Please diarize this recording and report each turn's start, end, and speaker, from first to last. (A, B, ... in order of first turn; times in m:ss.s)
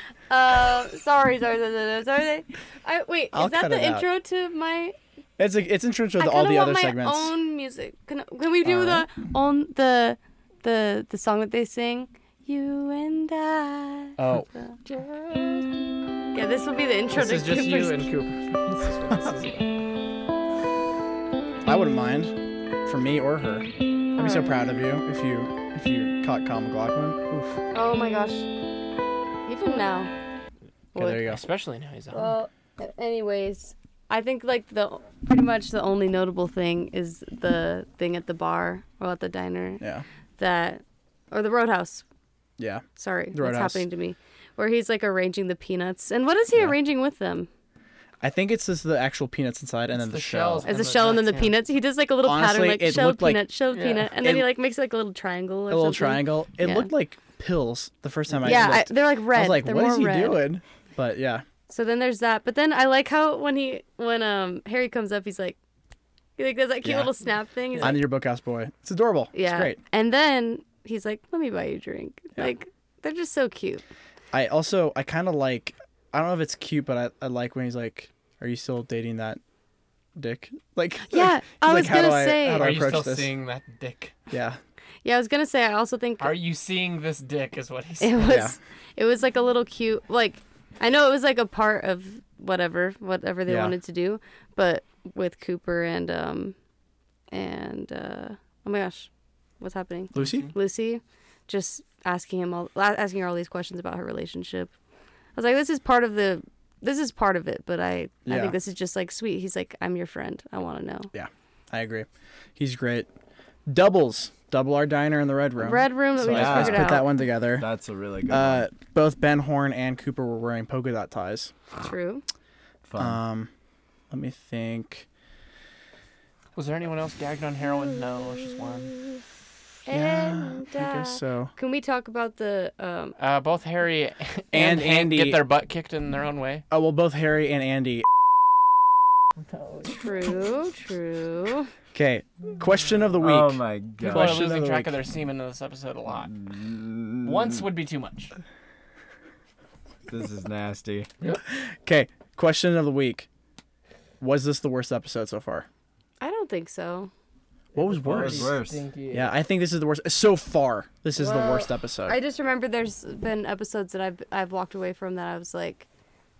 0:00.3-0:05.0 A
0:03.3-0:04.0 B
0:05.4-0:07.3 B
0:06.2-0:14.8 A
0:08.6-0:09.0 B
0:14.2-0:14.5 B
0:14.9-0:15.6 C
0:16.3-0:18.0 A
0:17.1-0:19.7 C
0:21.6-0:27.6 B
0:24.2-0:24.6 A
0:27.7-0:28.5 A
0:29.4-0:30.1 A
0:30.9-0:31.4 B
0:31.0-0:32.4 C
0:32.1-0:39.8 A
0:39.8-0:40.0 B
0:40.4-0:42.0 A
0:42.6-0:43.8 B
0:43.0-0:47.5 A
0:48.2-0:50.7 B
0:49.9-0:51.6 C
0:50.6-0:56.9 A
0:52.2-0:53.4 B
0:53.7-0:54.1 C
0:54.2-0:54.5 B
0:55.7-1:01.4 B
0:58.4-1:00.4 A
1:01.7-1:05.6 A
1:06.4-1:08.0 A
1:06.8-1:07.1 B
1:07.8-1:09.8 B
1:09.3-1:13.8 A
1:14.3-1:19.4 B
1:20.2-1:23.3 B
1:21.1-1:22.7 A
1:22.6-1:24.2 C
1:24.3-1:24.6 B
1:25.0-1:26.4 A
1:26.2-1:28.4 C
1:28.0-1:36.6 A
1:28.2-1:28.6 B
1:33.5-1:33.7 B
1:37.3-1:44.7 A
1:40.1-1:40.5 B
1:40.1-1:40.5 C
1:45.3-1:51.1 A
1:48.2-1:48.6 B
1:51.1-1:53.1 B
1:53.7-1:57.7 B
1:55.6-1:57.1 A
1:56.2-1:58.6 D
1:58.3-2:01.5 B
2:01.8-2:02.2 A
2:02.8-2:03.2 D
2:03.0-2:03.5 B
2:04.1-2:05.0 B
2:06.5-2:09.0 C
2:09.8-2:13.1 A
2:09.9-2:11.5 B
2:13.2-2:16.6 C
2:14.5-2:15.4 B
2:16.7-2:18.1 B
2:19.6-2:20.0 C
2:19.9-2:21.7 A
2:21.9-2:24.9 B
2:23.2-2:24.5 D
2:24.0-2:26.3 C
2:26.2-2:27.6 D
2:27.2-2:28.3 C
2:30.1-2:31.1 D
2:31.4-2:33.3 B
2:34.2-2:35.7 B
2:36.2-2:37.1 A
2:37.7-2:38.6 B
2:37.8-2:39.3 C
2:38.0-2:38.9 D
2:39.1-2:42.2 B
2:41.2-2:45.9 A